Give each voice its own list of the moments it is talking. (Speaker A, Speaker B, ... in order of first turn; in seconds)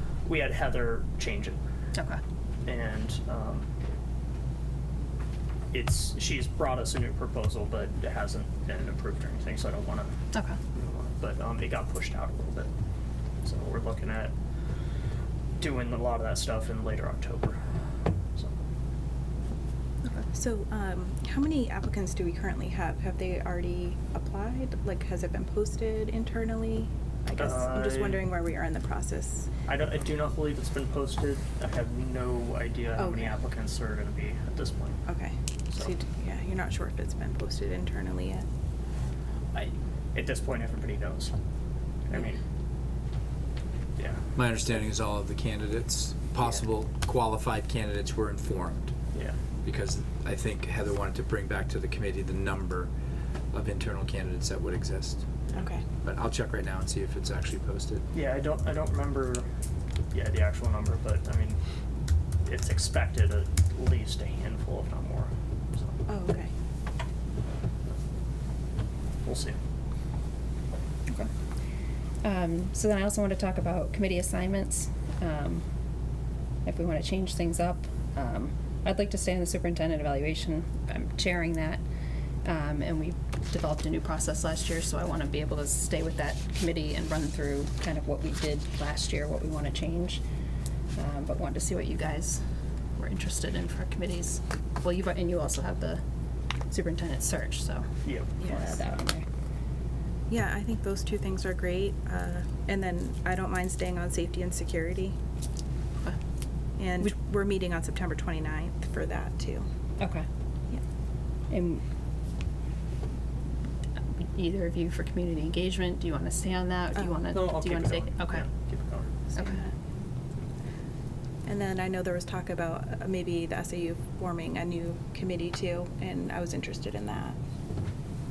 Speaker A: 0.2-1.6, 2.6-3.7, 5.7-10.1, 10.7-12.7, 13.4-14.3, 15.6-17.6, 18.4-18.6, 27.4-28.2, 29.6-35.0, 39.5-41.3, 42.1-42.4, 58.1-59.4, 60.1-61.6, 62.4-66.0, 69.2-69.6, 98.0-98.3, 117.3-119.1
Speaker B: 1.9-2.2, 10.3-10.6, 72.2-75.6, 76.6-81.8, 82.4-90.2, 90.9-92.4, 93.0-96.0, 96.7-97.9, 98.4-99.2, 110.0-110.2, 111.5-111.8, 114.2-118.5, 119.3-119.6
Speaker C: 20.3-29.5, 33.0-33.4, 35.0-38.5, 55.5-55.8, 66.1-66.5, 98.4-98.8, 100.3-105.1, 106.8-109.7, 116.9-117.2, 119.3-119.7, 121.4-127.4
Speaker D: 44.4-48.9, 49.6-52.9, 53.5-55.3, 55.9-58.0